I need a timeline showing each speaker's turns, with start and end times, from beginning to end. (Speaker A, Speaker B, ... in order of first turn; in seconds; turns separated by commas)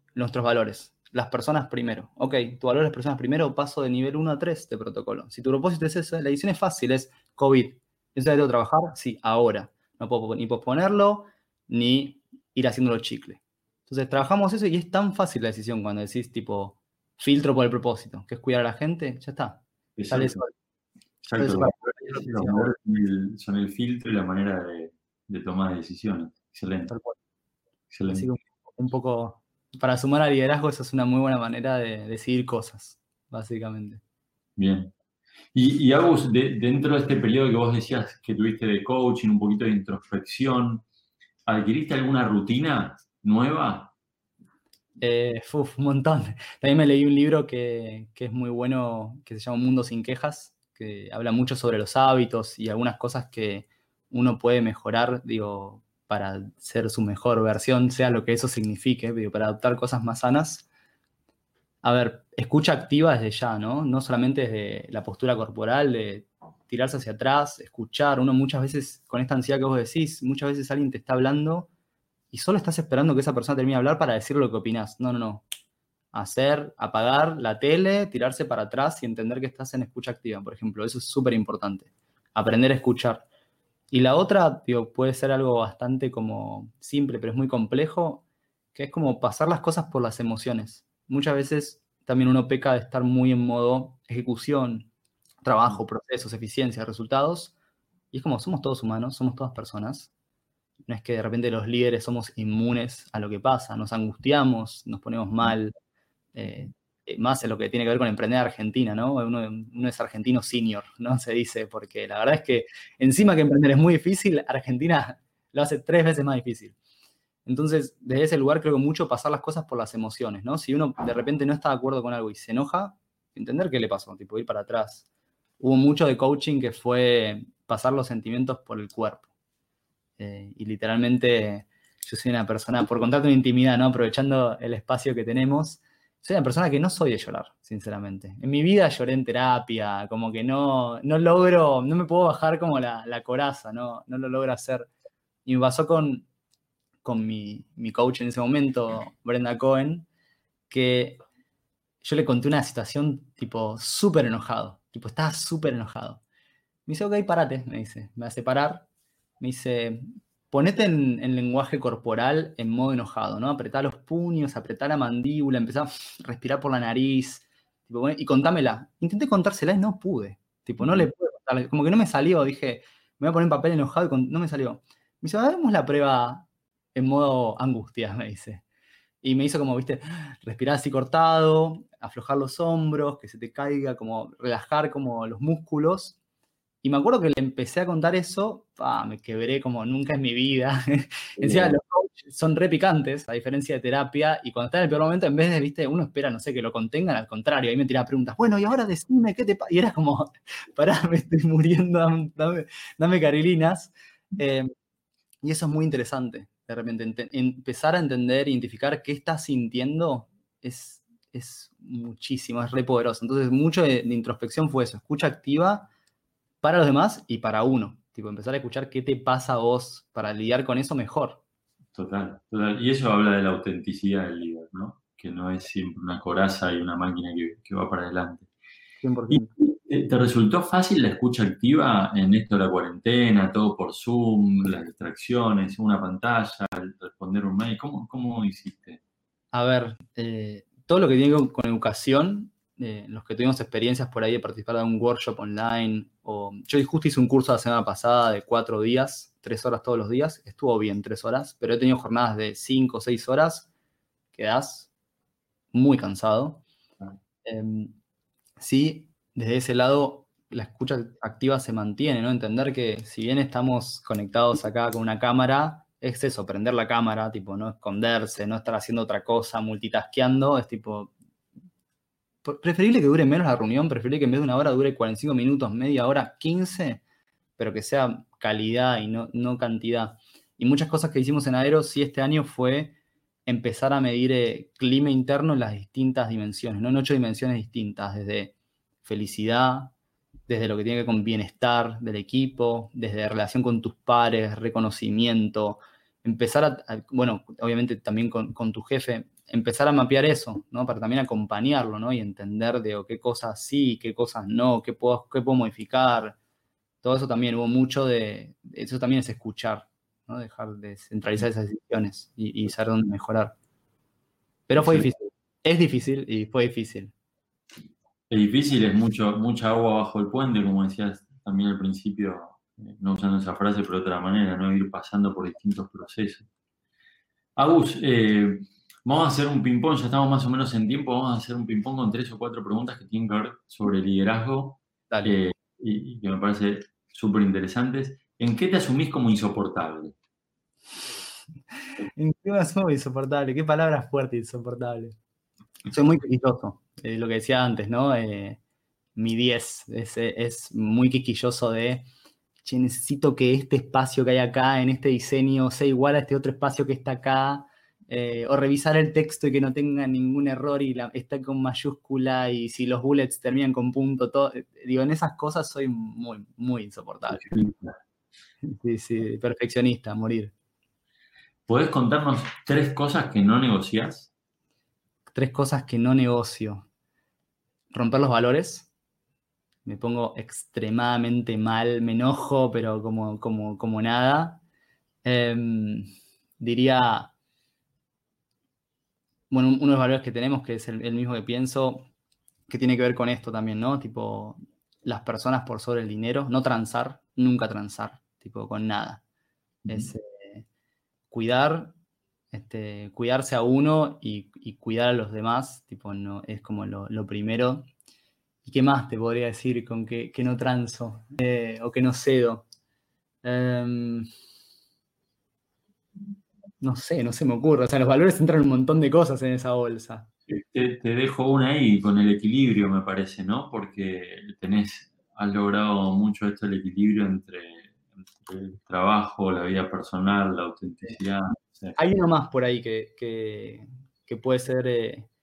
Speaker A: 0.1-20.5, Speaker B: 20.0-20.4, Speaker B: 21.2-26.9, Speaker A: 21.4-22.7, Speaker A: 26.9-27.2, Speaker B: 27.9-28.3, Speaker A: 28.1-34.0, Speaker B: 34.6-34.9, Speaker B: 35.5-40.8, Speaker B: 41.5-43.9, Speaker A: 45.0-60.6, Speaker A: 61.8-71.7, Speaker A: 72.3-75.4, Speaker A: 76.1-83.2, Speaker A: 83.9-94.9, Speaker A: 95.4-97.5, Speaker A: 98.1-100.1, Speaker A: 100.9-105.7, Speaker A: 106.3-116.8, Speaker A: 117.5-125.0, Speaker A: 125.6-129.3, Speaker A: 130.2-144.9, Speaker A: 145.4-146.2, Speaker A: 147.0-150.1, Speaker A: 150.7-151.2, Speaker A: 152.0-156.2, Speaker A: 156.9-158.9, Speaker A: 159.4-178.6, Speaker B: 170.8-171.1, Speaker A: 179.2-186.2, Speaker A: 186.8-204.7, Speaker B: 191.4-191.8, Speaker A: 205.4-215.9, Speaker A: 216.6-221.4, Speaker B: 221.9-228.5, Speaker A: 229.0-229.6, Speaker B: 229.3-239.0, Speaker A: 239.5-253.7, Speaker A: 254.3-254.9, Speaker A: 255.7-256.6, Speaker A: 257.4-258.0, Speaker A: 258.6-271.1, Speaker A: 272.4-277.0, Speaker A: 277.6-289.9, Speaker A: 290.5-306.4, Speaker A: 307.0-313.5, Speaker A: 314.7-317.1, Speaker B: 314.8-315.1, Speaker B: 318.3-326.5, Speaker B: 327.6-340.1, Speaker A: 335.1-335.4, Speaker A: 342.1-345.2, Speaker A: 345.9-348.6, Speaker A: 349.1-352.1, Speaker A: 352.6-367.4, Speaker B: 367.3-368.0, Speaker A: 368.6-370.5, Speaker B: 371.7-374.3, Speaker A: 375.3-376.9, Speaker A: 377.9-378.9, Speaker A: 379.8-384.6, Speaker A: 385.2-387.3, Speaker A: 389.5-392.1, Speaker A: 392.7-399.2, Speaker B: 399.8-400.1, Speaker A: 399.9-400.6, Speaker A: 401.3-401.9, Speaker A: 402.5-407.9, Speaker A: 408.6-412.6, Speaker A: 413.4-414.3, Speaker A: 416.8-420.3, Speaker B: 420.5-432.0, Speaker A: 431.9-435.3